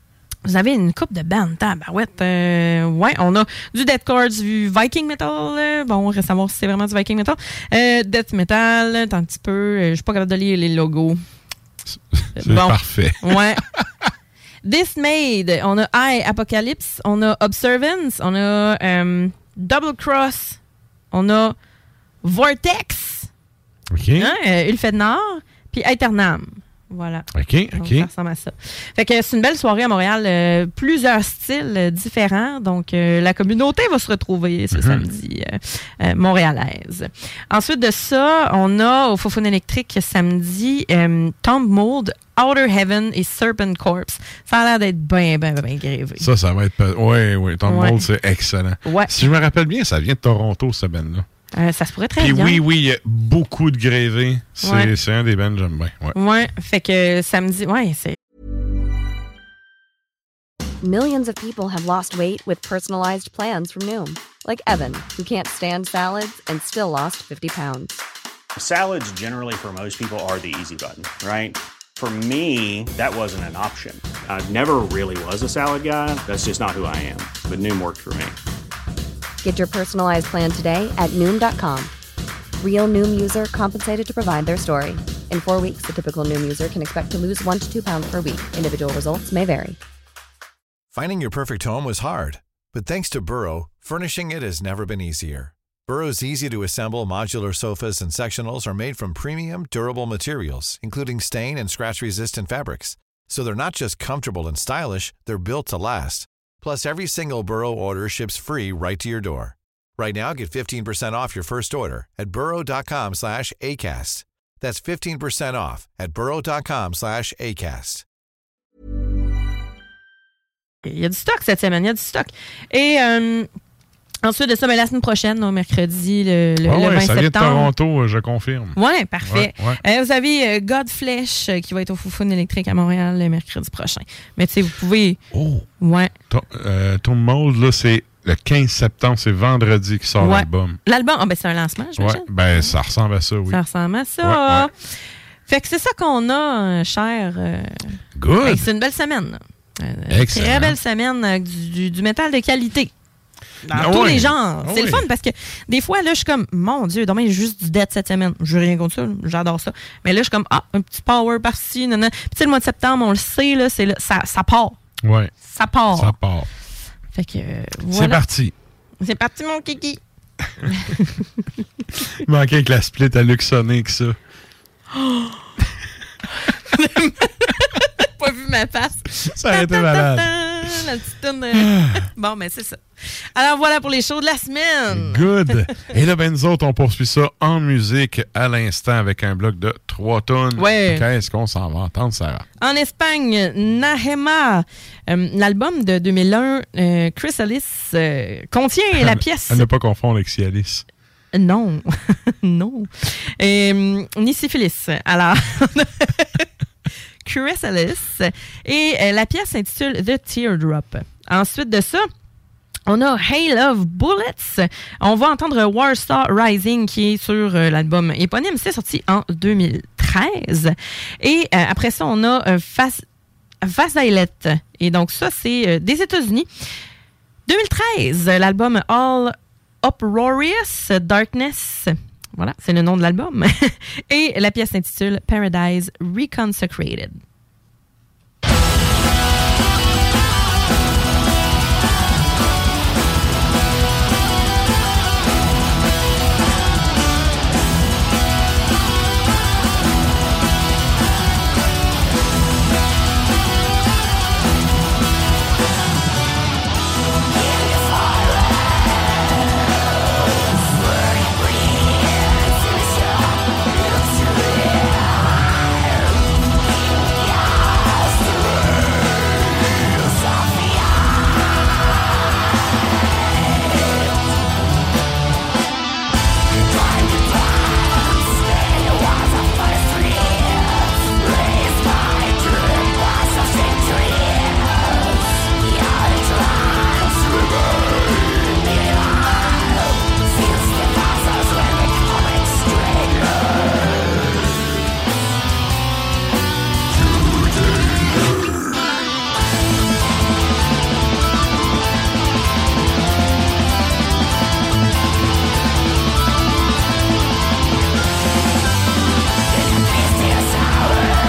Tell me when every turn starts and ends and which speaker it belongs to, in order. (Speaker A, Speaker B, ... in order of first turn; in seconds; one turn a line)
Speaker A: 0.4-11.2
Speaker B: 11.9-13.8
Speaker A: 12.4-13.6
Speaker A: 14.6-20.6
Speaker A: 21.1-21.6
Speaker A: 22.2-23.3
Speaker B: 23.9-24.3
Speaker A: 24.2-46.3
Speaker B: 27.3-28.1
Speaker B: 34.7-35.0
Speaker B: 46.2-51.3
Speaker A: 47.6-48.0
Speaker A: 48.8-49.1
Speaker A: 51.5-52.6
Speaker B: 52.2-56.1
Speaker A: 54.6-54.9
Speaker A: 56.1-58.1
Speaker C: 60.8-68.0
Speaker D: 68.5-78.3
Speaker C: 79.4-81.9
Speaker C: 82.6-89.8
Speaker E: 90.9-118.0
Speaker A: 120.8-123.5
Speaker A: 124.2-127.7
Speaker B: 126.6-129.8
Speaker A: 128.7-135.2
Speaker B: 135.3-135.7
Speaker A: 135.8-136.1
Speaker B: 136.3-140.8
Speaker A: 140.2-142.7
Speaker B: 142.0-143.6
Speaker A: 143.5-144.8
Speaker B: 144.2-144.7
Speaker A: 145.5-152.9
Speaker B: 148.1-148.7
Speaker B: 150.1-150.8
Speaker A: 153.6-164.8
Speaker B: 153.7-155.0
Speaker B: 165.0-165.3
Speaker A: 165.4-166.2
Speaker B: 165.9-166.5
Speaker A: 167.1-168.2
Speaker B: 167.9-168.5
Speaker A: 169.0-170.0
Speaker A: 170.7-171.1
Speaker B: 172.2-174.2
Speaker A: 174.9-175.4
Speaker A: 176.7-182.8
Speaker B: 179.2-180.8
Speaker B: 181.6-182.0
Speaker A: 183.3-185.5
Speaker B: 184.9-192.4
Speaker A: 190.6-191.0
Speaker A: 192.6-199.6
Speaker B: 199.0-200.8
Speaker A: 201.3-206.4
Speaker A: 207.2-212.1
Speaker A: 212.9-223.0
Speaker A: 223.6-226.5
Speaker A: 227.4-237.2